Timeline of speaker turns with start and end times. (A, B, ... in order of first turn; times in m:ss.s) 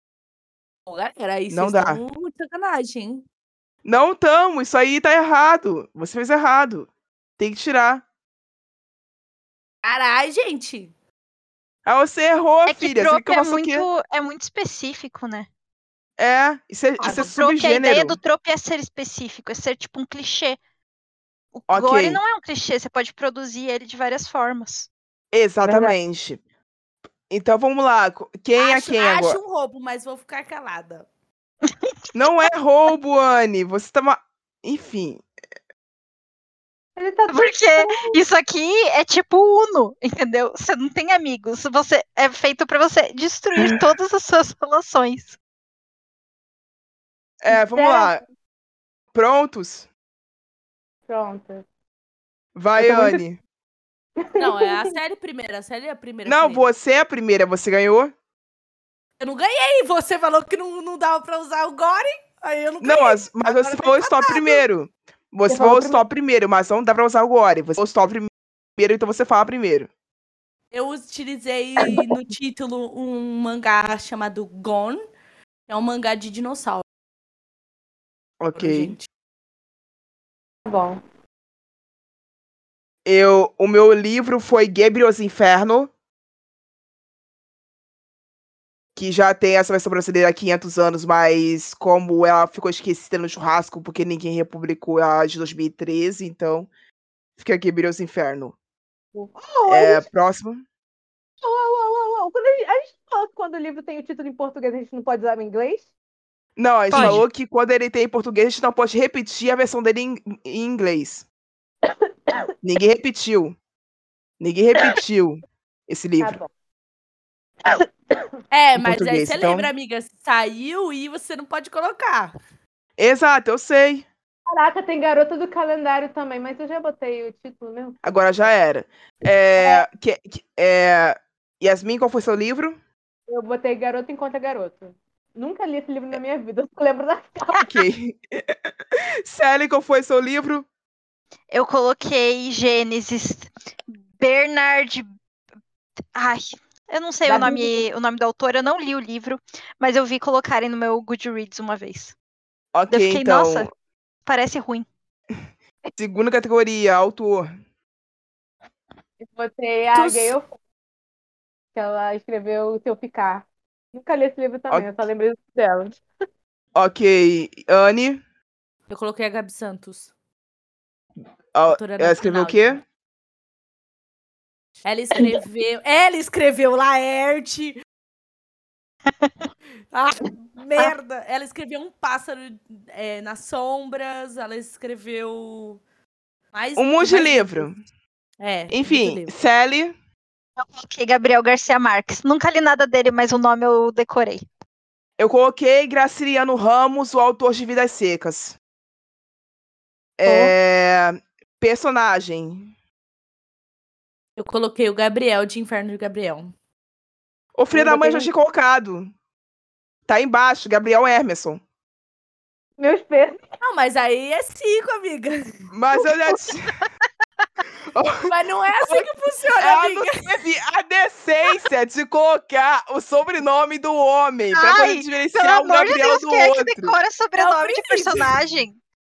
0:00.9-0:03.2 A
0:01.5-0:02.0 B
0:03.8-0:08.0 B
0:09.8-0:10.9 A
0:11.9-0:13.9 B
0:12.7-0:15.5 C
0:16.2-0:18.2 B
0:17.0-0:17.3 A
0:17.0-0:20.6 C
0:21.5-0:24.9 C
0:21.7-0:22.2 B
0:25.3-0:26.4 B
0:25.6-0:26.0 D
0:27.3-0:29.4 B
0:28.6-0:31.1 A
0:32.1-0:35.2 B
0:37.0-0:38.2 D
0:37.3-0:45.4 C
0:47.4-0:48.2 B
0:47.5-0:48.2 D
0:49.1-0:49.9 B
0:51.1-0:51.6 D
0:52.6-0:53.4 B
0:52.8-0:53.2 D
0:54.2-0:54.9 D
0:54.4-0:56.7 A
0:56.2-0:58.1 B
0:59.2-1:03.2 A
1:02.8-1:09.9 B
1:05.5-1:06.0 D
1:10.7-1:15.0 A
1:15.7-1:16.8 A
1:18.4-1:19.0 B
1:18.6-1:19.1 A
1:20.7-1:21.0 D
1:23.0-1:25.9 B
1:29.0-1:36.7 B
1:37.4-1:38.6 B
1:39.2-1:40.0 D
1:39.7-1:40.6 B
1:41.4-1:45.9 D
1:46.6-1:51.2 B
1:46.9-1:47.2 C
1:51.8-1:52.5 D
1:52.6-1:53.6 B
1:54.4-1:56.4 B
1:56.2-1:56.5 D
1:57.6-1:58.3 D
1:58.5-2:02.3 A
1:58.8-1:59.7 B
2:03.0-2:04.1 B
2:04.5-2:08.5 D
2:08.0-2:12.8 B
2:09.6-2:09.9 D
2:13.3-2:17.8 D
2:17.6-2:18.5 B
2:19.3-2:20.7 B
2:21.5-2:25.1 C
2:26.1-2:32.1 C
2:27.2-2:27.8 D
2:32.7-2:33.7 B
2:32.9-2:33.7 C
2:34.3-2:34.9 C
2:36.0-2:37.5 B
2:39.2-2:40.5 D
2:39.9-2:40.3 A
2:41.8-2:46.0 D
2:44.7-2:45.0 B
2:46.8-2:48.2 B
2:48.9-2:50.1 A
2:51.5-2:52.8 B
2:51.7-2:52.8 A
2:54.8-2:57.7 A
2:59.1-2:59.5 C
2:59.9-3:05.8 A
3:06.5-3:07.7 A
3:06.8-3:07.8 B
3:08.4-3:09.3 A
3:08.7-3:09.9 B
3:10.6-3:14.4 C
3:15.2-3:18.6 B
3:20.2-3:22.7 B
3:20.3-3:20.6 D
3:24.4-3:26.5 A
3:27.6-3:29.1 B
3:27.7-3:28.3 D
3:30.1-3:31.6 B
3:32.8-3:33.4 D
3:33.6-3:35.7 A
3:35.7-3:36.8 B
3:37.9-3:38.3 B
3:38.3-3:40.2 A
3:38.9-3:47.0 B
3:44.5-3:48.8 C
3:47.4-3:48.4 A